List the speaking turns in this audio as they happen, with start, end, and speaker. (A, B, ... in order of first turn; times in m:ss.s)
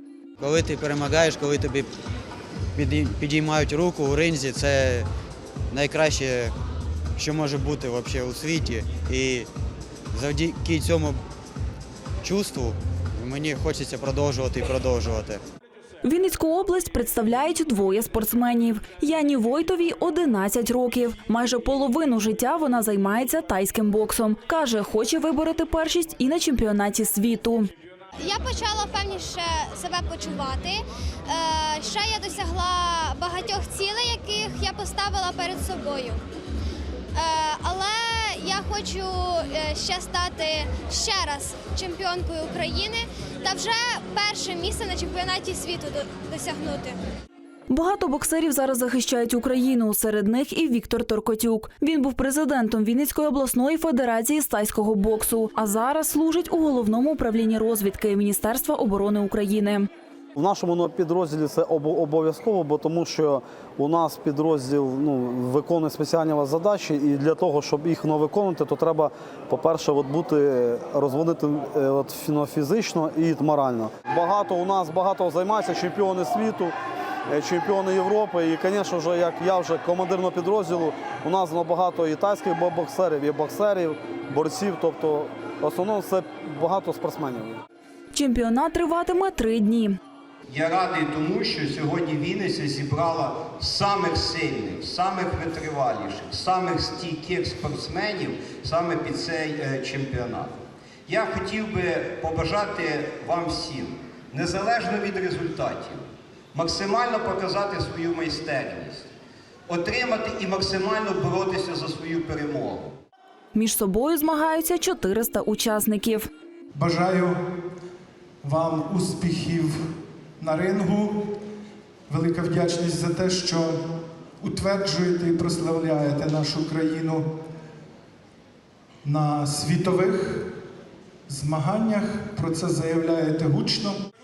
0:00.4-0:01.9 A
0:02.8-0:05.1 A
0:05.7-0:06.5 A
0:07.2-0:09.5 A
0:10.1-0:11.2 A
0:12.2-0:15.4 A
0:16.0-0:27.7 B
0:28.2-0:36.2 C
0:37.1-0:47.0 C
0:47.7-0:59.9 B
1:00.3-1:16.7 D
1:17.3-1:27.6 D
1:28.1-1:30.0 B
1:30.5-1:40.5 E
1:41.1-1:46.0 E
1:46.5-1:49.1 E
1:49.7-1:52.9 E
1:53.5-1:56.3 B
1:56.7-1:57.3 F
1:58.4-1:59.7 F
2:00.4-2:01.0 F
2:02.1-2:03.4 F
2:04.4-2:06.8 F
2:09.0-2:10.1 F
2:11.3-2:12.5 F
2:13.0-2:13.9 F